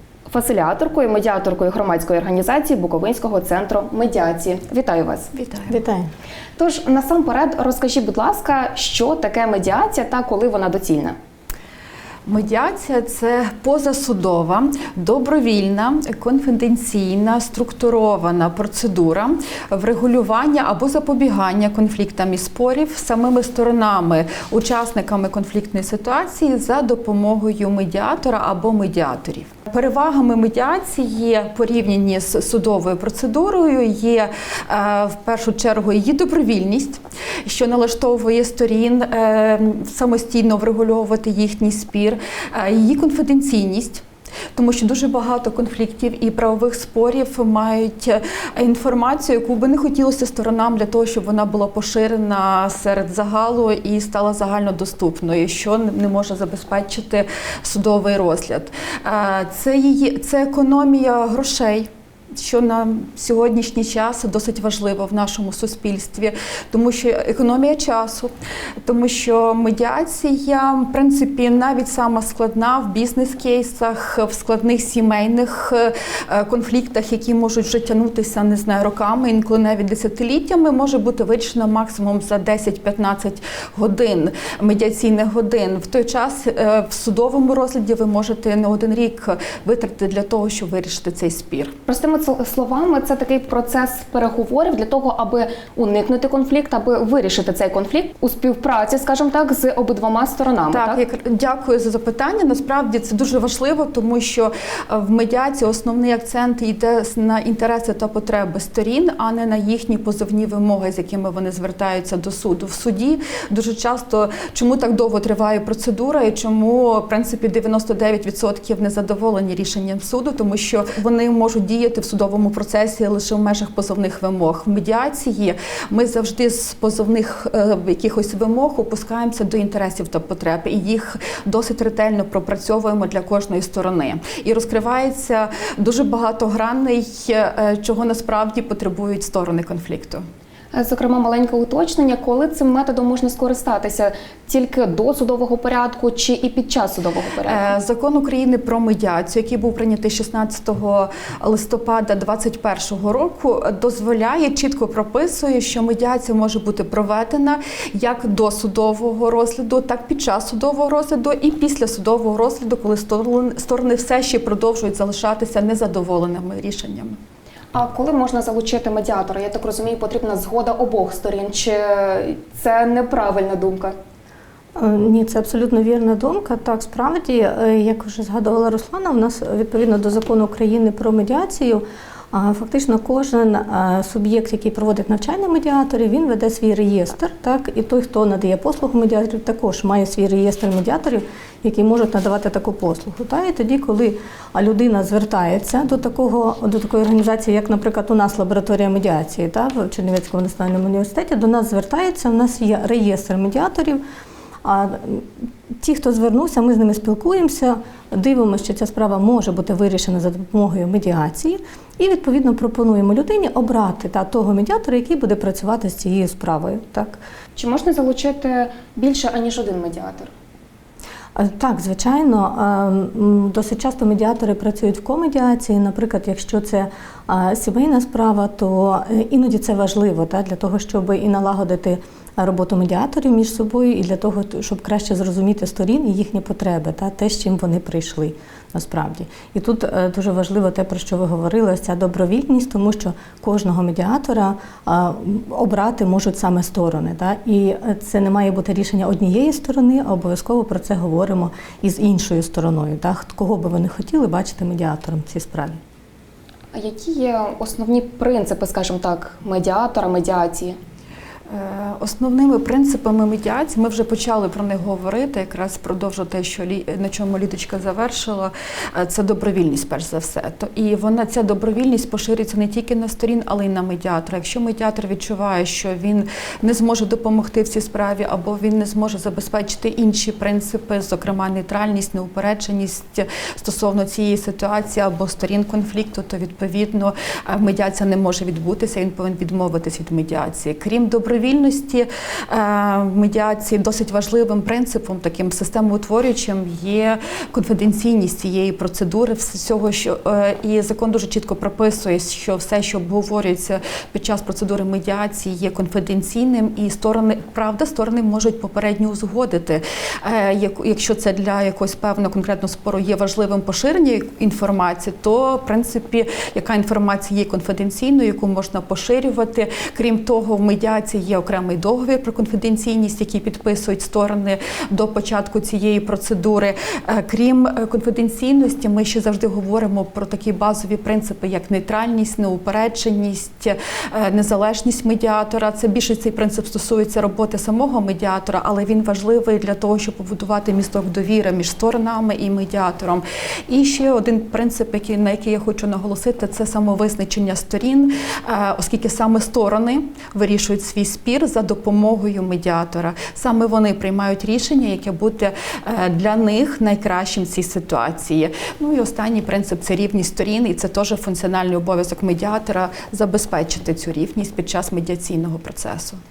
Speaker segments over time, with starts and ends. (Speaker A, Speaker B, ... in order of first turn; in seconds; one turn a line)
Speaker A: 0.3-5.3
Speaker B: 5.3-5.8
Speaker C: 5.7-6.1
Speaker A: 6.6-11.2
Speaker B: 12.3-68.3
Speaker B: 68.8-91.8
Speaker A: 91.9-101.0
Speaker B: 100.7-140.2
Speaker A: 140.7-147.7
Speaker B: 147.5-167.2
Speaker A: 167.7-173.9
Speaker C: 174.8-204.0
Speaker C: 204.6-217.2
Speaker A: 217.6-220.3
Speaker C: 221.3-255.8
Speaker A: 256.7-260.8
Speaker B: 261.5-366.2